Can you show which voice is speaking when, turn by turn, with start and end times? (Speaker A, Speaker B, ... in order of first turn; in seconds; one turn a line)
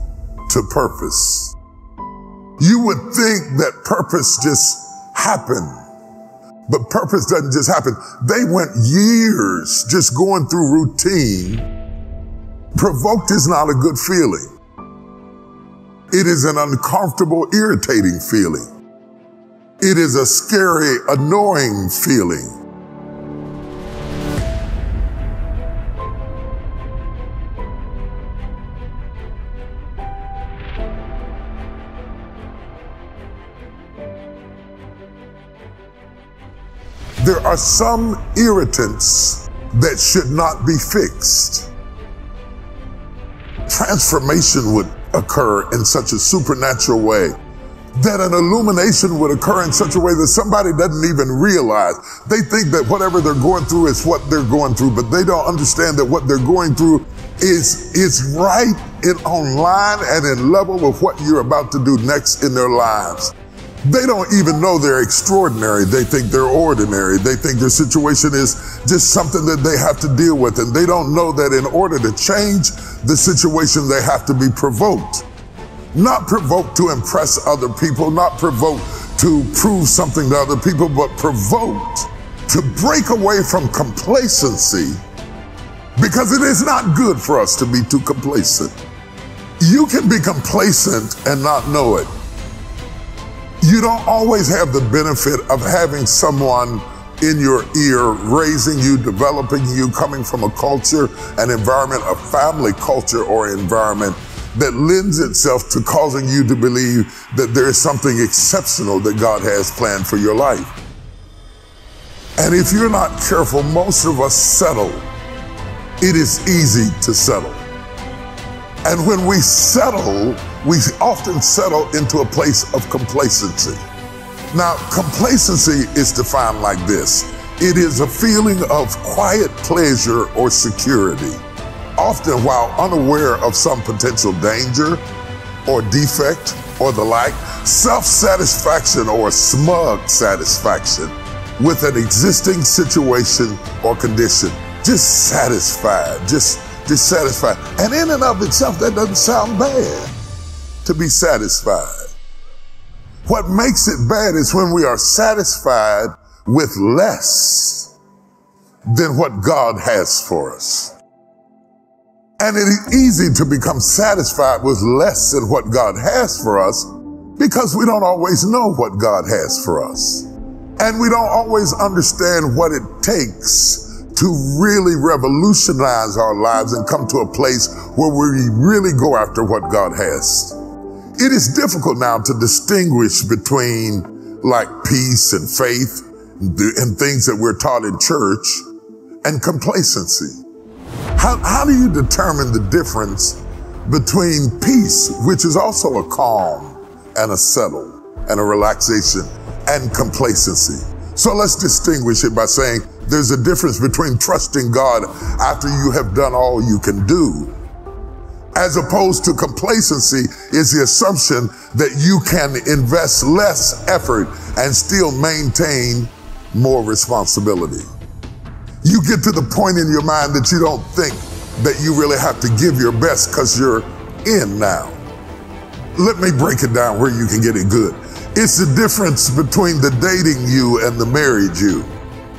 Speaker A: 0.5-1.6
Speaker A: 2.6-5.8
Speaker A: 6.7-11.7
Speaker A: 12.7-14.5
Speaker A: 16.1-18.7
Speaker A: 19.8-22.6
Speaker A: 37.2-41.7
Speaker A: 43.7-47.3
Speaker A: 48.0-75.3
Speaker A: 75.9-85.0
Speaker A: 86.0-88.8
Speaker A: 89.6-92.1
Speaker A: 93.6-110.7
Speaker A: 112.4-115.1
Speaker A: 116.0-117.6
Speaker A: 118.8-123.8
Speaker A: 124.5-131.4
Speaker A: 132.0-135.0
Speaker A: 135.7-150.1
Speaker A: 150.8-152.1
Speaker A: 153.3-157.9
Speaker A: 158.9-160.9
Speaker A: 162.4-180.6
Speaker A: 181.2-188.7
Speaker A: 189.2-190.4
Speaker A: 191.2-207.5
Speaker A: 208.6-217.9
Speaker A: 218.8-225.0
Speaker A: 225.9-231.9